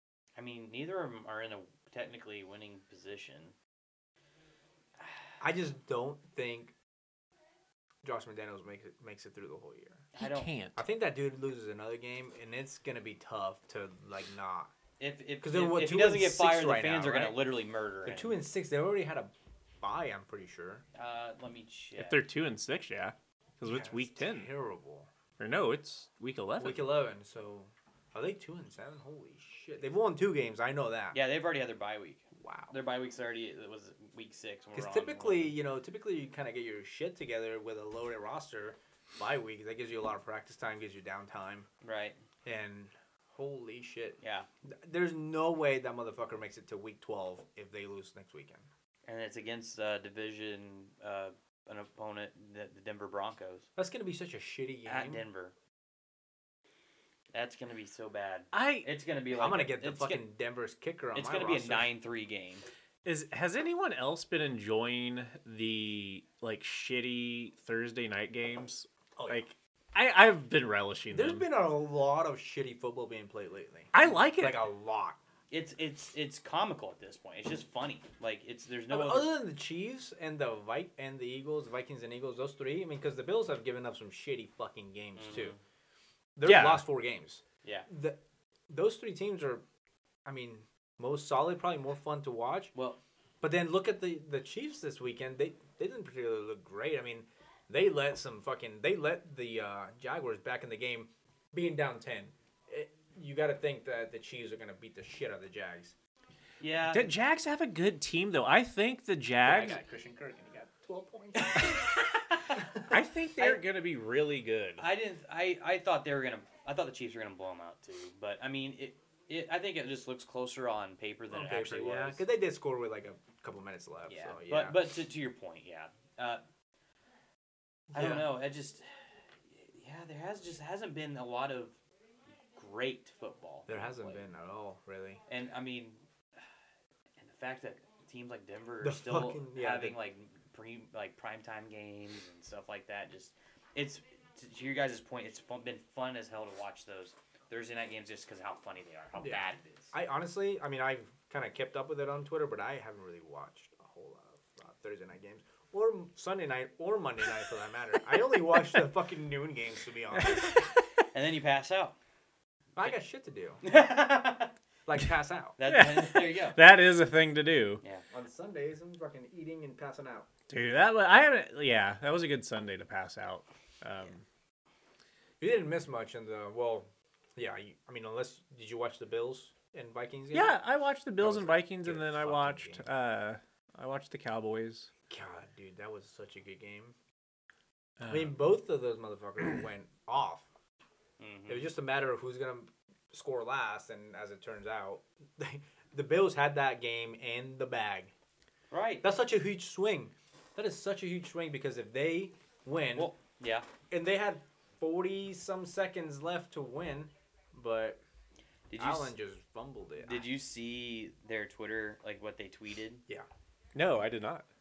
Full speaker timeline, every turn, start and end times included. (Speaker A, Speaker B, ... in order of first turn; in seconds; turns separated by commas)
Speaker A: 0.4-3.5, Speaker B: 5.4-6.7, Speaker B: 8.0-10.1, Speaker A: 10.2-10.5, Speaker C: 10.2-10.8, Speaker B: 10.8-14.7, Speaker A: 15.0-18.4, Speaker B: 15.4-17.4, Speaker B: 18.0-20.8, Speaker A: 20.9-22.2, Speaker C: 22.0-24.5, Speaker B: 23.6-25.1, Speaker C: 25.4-26.9, Speaker B: 26.6-31.2, Speaker A: 31.1-35.6, Speaker B: 32.4-32.7, Speaker B: 34.8-41.7, Speaker A: 41.8-42.2, Speaker B: 42.5-44.2, Speaker A: 44.2-44.5, Speaker B: 44.7-48.7, Speaker A: 49.1-53.7, Speaker B: 53.8-55.2, Speaker A: 54.9-55.5, Speaker A: 57.3-60.2, Speaker C: 58.5-58.9, Speaker B: 59.3-61.9, Speaker A: 61.1-62.6, Speaker C: 63.0-71.5, Speaker B: 69.2-69.5, Speaker B: 71.1-75.2, Speaker C: 73.9-74.7, Speaker A: 75.5-79.3, Speaker B: 78.9-85.5, Speaker A: 85.2-85.6, Speaker B: 86.4-88.2, Speaker C: 86.4-86.9, Speaker B: 88.7-89.6, Speaker B: 90.3-92.7, Speaker B: 93.4-105.9, Speaker A: 106.6-107.1, Speaker C: 106.9-109.8, Speaker B: 109.4-111.8, Speaker A: 111.4-111.8, Speaker B: 112.5-112.9, Speaker C: 112.9-114.8, Speaker A: 114.8-122.2, Speaker B: 121.3-124.8, Speaker A: 124.1-126.4, Speaker B: 127.9-128.3, Speaker A: 127.9-128.9, Speaker A: 129.5-131.8, Speaker A: 132.6-134.3, Speaker B: 133.7-135.2, Speaker A: 135.3-136.0, Speaker A: 137.2-149.9, Speaker B: 138.8-140.0, Speaker B: 149.2-160.6, Speaker A: 161.1-161.9, Speaker B: 162.8-163.6, Speaker A: 163.6-164.5, Speaker B: 164.9-165.6, Speaker A: 165.6-166.6, Speaker C: 165.7-167.8, Speaker B: 168.1-170.3, Speaker C: 170.5-174.2, Speaker B: 175.4-180.6, Speaker C: 180.3-184.9, Speaker B: 181.2-182.9, Speaker B: 185.1-186.9, Speaker C: 188.0-188.3, Speaker B: 188.1-190.5, Speaker A: 191.2-191.7, Speaker B: 191.5-198.1, Speaker A: 198.7-199.1, Speaker B: 199.0-203.1, Speaker A: 202.9-203.7, Speaker B: 203.9-208.0, Speaker A: 208.7-209.1, Speaker B: 208.8-210.3, Speaker A: 210.0-213.0, Speaker C: 213.8-214.5